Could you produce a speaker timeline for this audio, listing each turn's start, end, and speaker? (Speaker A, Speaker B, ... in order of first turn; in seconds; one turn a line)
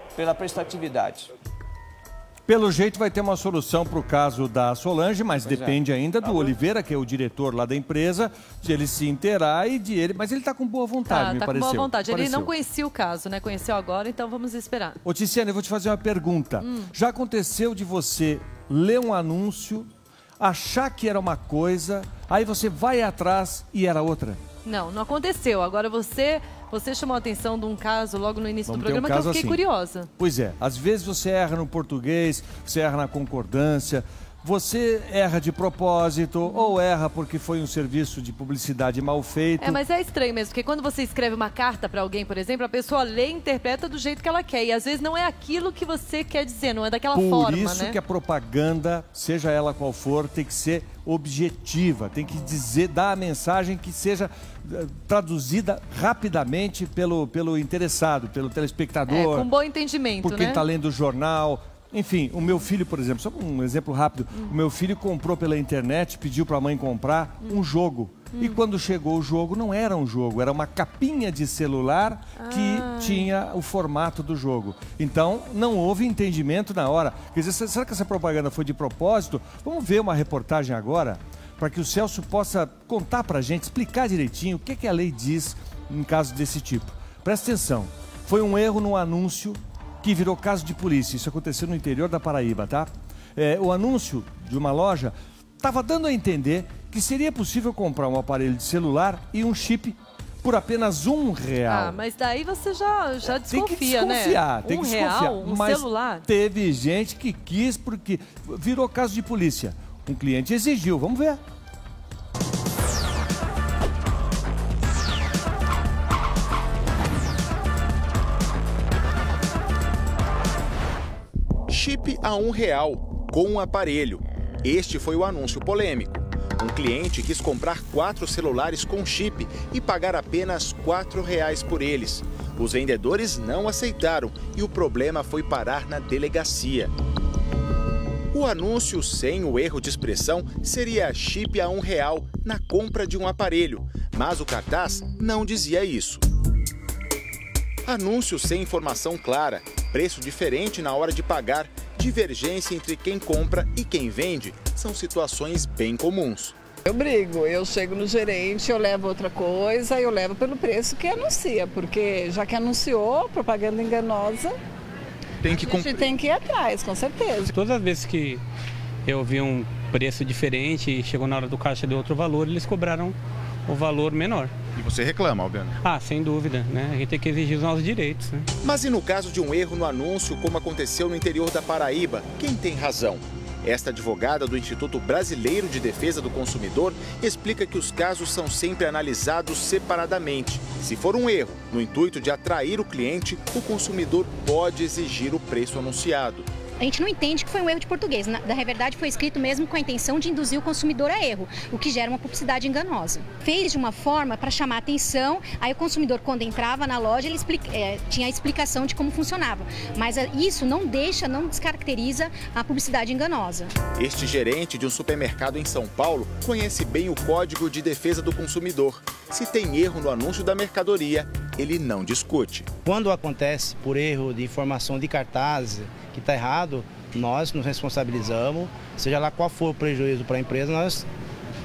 Speaker A: 0.2-1.3
Speaker B: 2.5-12.5
Speaker A: 5.5-6.5
Speaker C: 11.1-15.0
Speaker B: 15.0-24.4
Speaker C: 16.6-16.9
Speaker C: 24.6-30.1
Speaker B: 28.7-29.6
Speaker B: 30.2-39.8
Speaker C: 36.5-36.8
Speaker C: 39.6-48.0
Speaker B: 47.1-59.5
Speaker C: 59.1-60.6
Speaker B: 60.2-102.0
Speaker C: 68.3-68.6
Speaker C: 72.4-73.3
Speaker C: 101.7-106.3
Speaker B: 103.4-111.4
Speaker D: 121.7-136.9
Speaker D: 138.3-146.2
Speaker D: 147.8-156.6
Speaker E: 156.8-164.6
Speaker D: 165.4-166.1
Speaker E: 165.5-167.5
Speaker F: 167.6-168.4
Speaker F: 169.1-173.1
Speaker F: 173.7-174.5
Speaker D: 174.7-175.8
Speaker F: 175.8-178.4
Speaker D: 178.6-196.5
Speaker G: 196.8-213.7
Speaker D: 213.9-222.7
Speaker H: 222.8-231.1